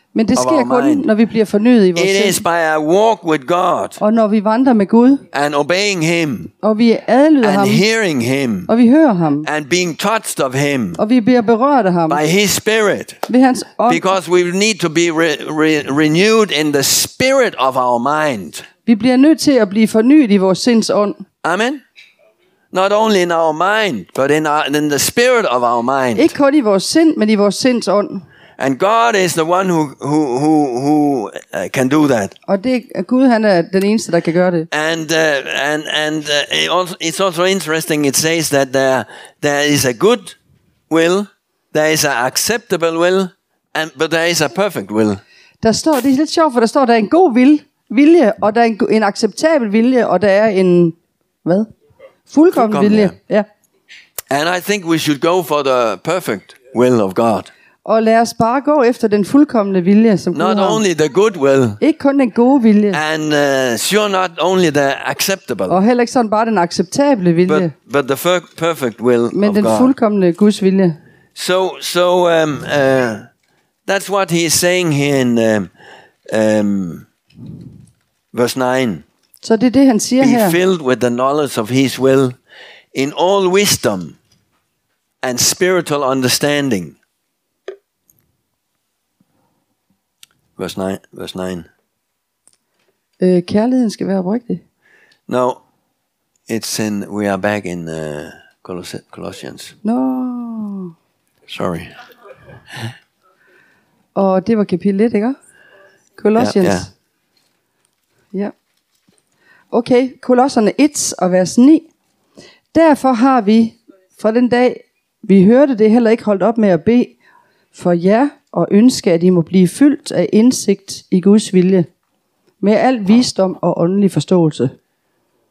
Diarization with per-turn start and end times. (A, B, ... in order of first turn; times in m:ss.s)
0:00.1-0:02.4 A
0:00.4-0:01.1 B
0:02.0-0:04.0 B
0:04.0-0:05.2 A
0:05.3-0:06.5 B
0:06.6-0:07.8 A
0:07.4-0:08.7 B
0:08.7-0:09.5 A
0:09.4-0:11.0 B
0:11.0-0:12.2 A
0:12.1-0:13.2 B
0:13.3-0:14.1 A
0:13.9-0:18.7 B
0:18.9-0:21.2 A
0:21.4-0:21.8 B
0:22.7-0:26.3 B
0:26.2-0:28.3 A
0:28.6-0:32.4 B
0:32.5-0:34.7 A
0:34.7-0:40.4 B
0:40.9-0:45.2 B
0:45.6-0:51.7 A
0:52.3-0:53.5 A
0:52.5-0:53.1 B
0:54.3-0:57.5 B
0:57.8-1:00.8 A
1:00.3-1:01.8 B
1:01.8-1:03.0 A
1:02.9-1:05.8 B
1:05.7-1:07.7 A
1:07.5-1:09.9 B
1:09.3-1:11.0 A
1:11.4-1:13.3 B
1:13.9-1:15.7 B
1:16.3-1:17.1 B
1:18.3-1:19.0 B
1:19.4-1:20.6 A
1:20.2-1:22.4 B
1:22.9-1:24.2 B
1:25.2-1:27.0 B
1:30.6-1:31.7 B
1:33.2-1:34.6 A
1:35.3-1:35.6 B
1:36.5-1:39.8 B
1:39.8-1:40.9 A
1:41.5-1:42.0 B
1:44.2-1:45.4 A
1:46.2-1:46.9 A
1:46.4-1:46.9 B
1:49.7-1:51.9 A
1:52.7-1:57.2 A
1:57.7-2:01.9 A
2:02.6-2:04.7 A